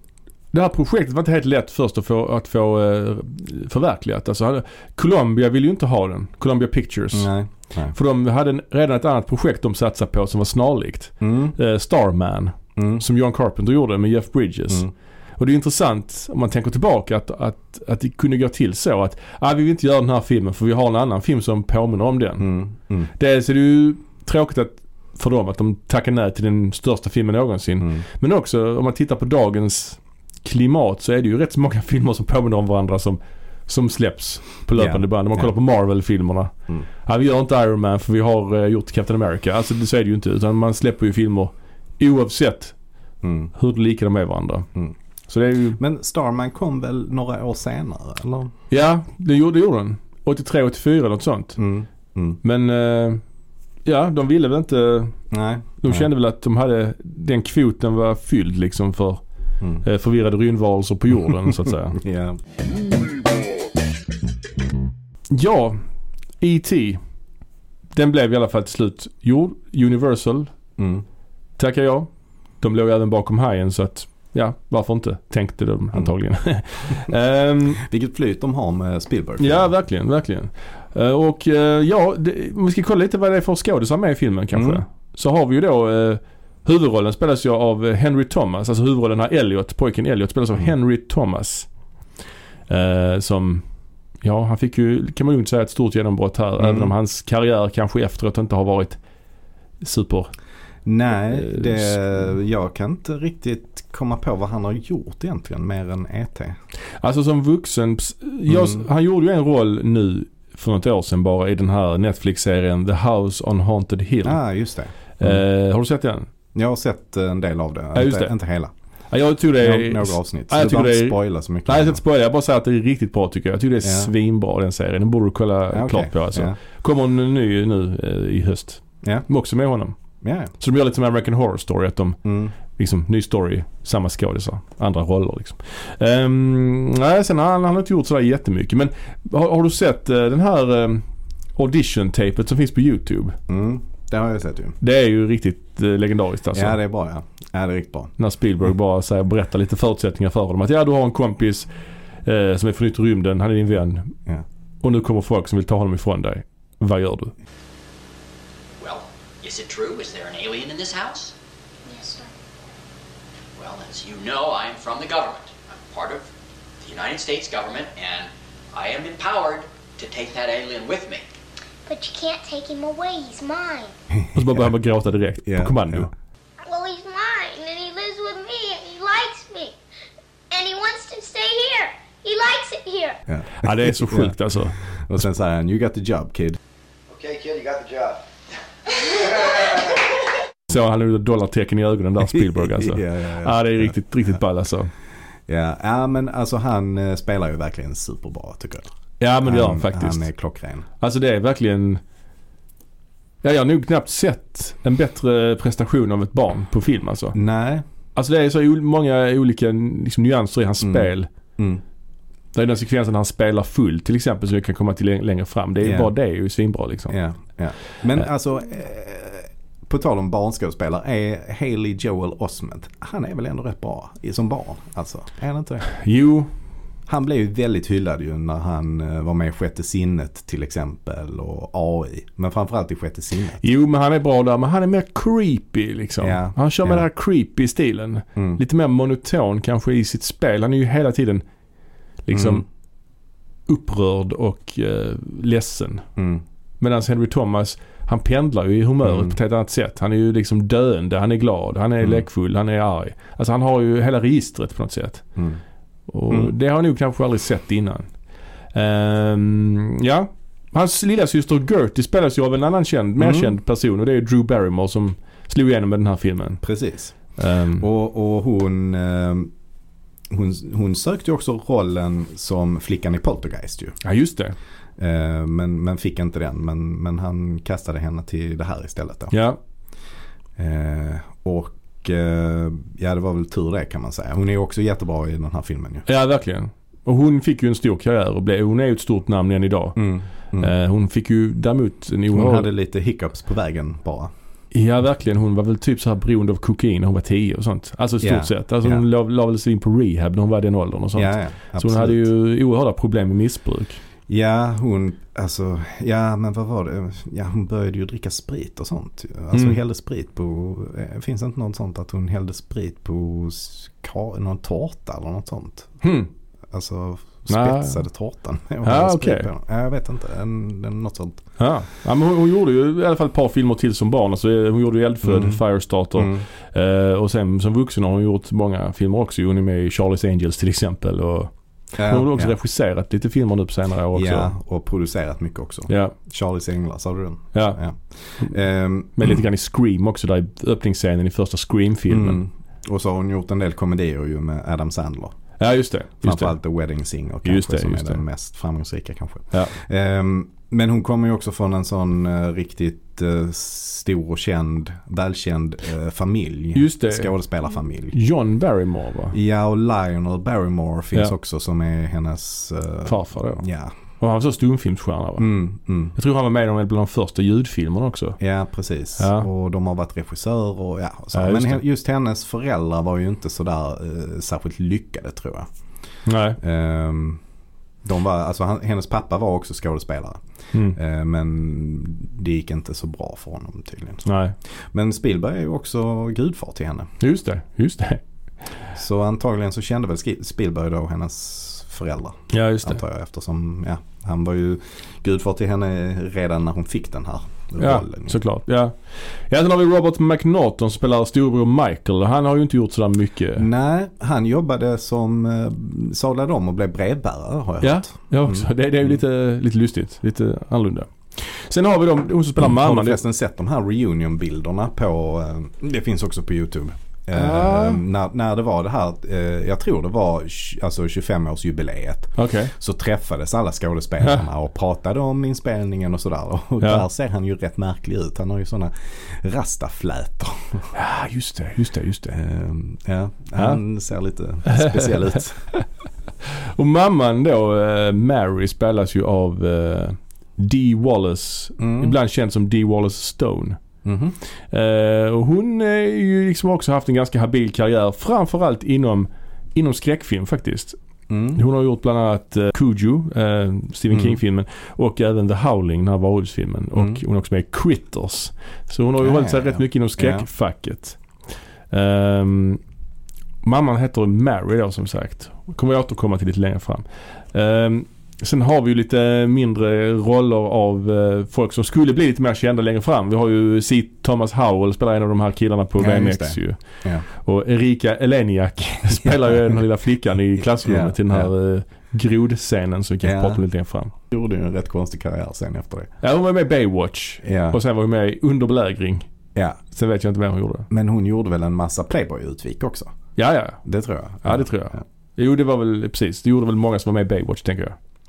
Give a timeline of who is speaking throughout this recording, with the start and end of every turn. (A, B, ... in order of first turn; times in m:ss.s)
0:00.5-0:07.3 A
0:07.1-0:07.9 B
0:07.9-0:22.5 A
0:11.2-0:11.6 B
0:12.8-0:13.0 B
0:22.4-0:23.1 B
0:23.2-0:36.5 A
0:34.8-0:35.5 B
0:37.0-0:42.7 A
0:43.2-0:43.5 B
0:43.5-0:44.7 A
0:45.3-0:45.8 A
0:45.8-0:48.5 B
0:48.7-0:51.6 A
0:51.6-0:52.4 B
0:52.4-0:53.2 A
0:53.8-0:55.2 A
0:55.3-0:56.1 B
0:55.8-0:59.2 A
0:59.8-1:02.0 A
1:01.9-1:02.4 B
1:05.3-1:05.8 A
1:06.4-1:07.0 A
1:07.9-1:10.5 A
1:10.8-1:11.0 B
1:11.6-1:12.1 A
1:12.6-1:17.8 A
1:17.8-1:19.7 B
1:19.4-1:31.7 A
1:24.5-1:24.8 B
1:32.7-1:33.6 A
1:34.2-1:39.0 A
1:36.6-1:36.9 B
1:39.8-1:40.3 A
1:40.8-1:46.6 B
1:41.3-1:42.0 A
1:47.0-1:54.4 A
1:48.5-1:48.8 B
1:54.2-1:55.4 B
1:55.2-1:56.3 A
1:56.5-1:58.7 B
1:57.9-1:58.3 A
1:59.1-2:09.9 A
1:59.6-2:02.0 B
2:03.8-2:04.1 B
2:05.7-2:06.6 B
2:10.2-2:10.5 B
2:10.6-2:21.0 A
2:12.2-2:12.5 B
2:21.6-2:23.4 A
2:23.5-2:24.8 B
2:24.8-2:26.8 A
2:26.5-2:28.1 B
2:28.2-2:31.7 A
2:32.2-2:34.1 A
2:34.8-2:37.3 A
2:38.8-2:41.3 C
2:41.8-2:42.3 D
2:43.6-2:51.2 C
2:51.8-2:53.9 D
2:54.1-2:54.7 B
2:54.3-2:56.1 A
2:55.4-2:56.1 B
2:56.6-2:59.8 D
3:00.5-3:03.2 D
3:03.3-3:04.4 B
3:03.6-3:04.8 A
3:04.9-3:06.6 B
3:07.1-3:08.2 E
3:08.8-3:10.1 E
3:10.7-3:14.9 A
3:12.3-3:14.0 B
3:15.5-3:18.9 B
3:19.2-3:20.3 A
3:19.4-3:20.9 B
3:21.0-3:22.0 A
3:23.4-3:27.4 A
3:27.3-3:27.8 B
3:28.2-3:31.3 A
3:30.8-3:31.8 B
3:32.5-3:37.2 A
3:35.8-3:36.1 B
3:37.1-3:45.9 B
3:45.9-3:46.5 A
3:47.1-3:53.6 B
3:53.6-4:01.4 A
3:56.2-3:57.0 B
3:58.4-3:58.6 B
4:02.2-4:02.6 A
4:02.3-4:02.6 B
4:03.7-4:06.0 A
4:06.2-4:06.4 B
4:06.8-4:15.2 A
4:09.0-4:09.4 B
4:16.1-4:18.1 A
4:18.7-4:26.6 A
4:23.2-4:23.5 B
4:26.6-4:27.2 B
4:27.4-4:27.8 A
4:27.8-4:29.5 B
4:30.3-4:34.0 B
4:34.0-4:34.5 A
4:35.0-4:39.3 B
4:39.3-4:39.6 A
4:40.6-4:46.1 B
4:46.1-4:50.0 A
4:50.0-4:50.7 B
4:50.6-4:52.7 A
4:52.3-4:54.3 B
4:54.7-5:04.0 A
4:58.2-4:59.0 B
5:01.1-5:02.3 B
5:04.3-5:16.0 B
5:16.0-5:16.3 A
5:16.7-5:21.4 B
5:17.5-5:18.0 A
5:18.8-5:19.5 A
5:21.6-5:34.5 A
5:25.2-5:25.6 B
5:26.2-5:26.4 B
5:32.0-5:32.5 B
5:34.1-5:39.4 B
5:35.9-5:36.1 A
5:37.5-5:37.8 A
5:39.2-5:42.4 A
5:42.1-5:45.4 B
5:45.6-5:46.5 A
5:46.2-5:58.2 B
5:47.4-5:48.2 A
5:56.7-5:57.3 A
5:58.1-5:59.4 A
5:59.3-6:03.9 B
6:03.0-6:03.6 A
6:04.2-6:05.5 A
6:05.4-6:06.2 B
6:06.1-6:08.4 A
6:08.4-6:15.7 B
6:09.2-6:09.5 A
6:11.3-6:11.8 A
6:16.2-6:16.6 A
6:16.6-6:17.4 B
6:18.0-6:20.4 B
6:20.9-6:24.2 B
6:24.2-6:24.5 A
6:24.9-6:27.1 B
6:27.2-6:28.2 A
6:28.9-6:38.4 B
6:32.5-6:33.0 A
6:37.8-6:39.0 A
6:39.5-6:43.7 A
6:43.6-6:48.7 B
6:47.8-6:53.2 A
6:52.6-7:10.9 B
6:57.3-6:58.0 A
7:02.4-7:02.7 A
7:10.9-7:12.4 A
7:12.3-7:15.7 B
7:14.6-7:15.8 A
7:16.4-7:23.8 A
7:21.8-7:22.1 B
7:24.0-7:24.3 B
7:24.7-7:31.0 A
7:31.3-7:31.6 B
7:31.5-7:41.2 A
7:34.1-7:34.4 B
7:37.0-7:37.2 B
7:39.2-7:40.5 B
7:41.9-7:42.8 A
7:43.6-8:04.1 A
7:56.0-7:57.2 B
7:59.1-7:59.8 B
8:00.8-8:01.5 B
8:03.2-8:03.6 B
8:04.3-8:06.1 B
8:06.2-8:09.3 A
8:07.4-8:07.8 B
8:09.9-8:10.9 A
8:10.9-8:13.1 B
8:13.4-8:13.8 A
8:13.8-8:15.0 B
8:14.4-8:18.0 A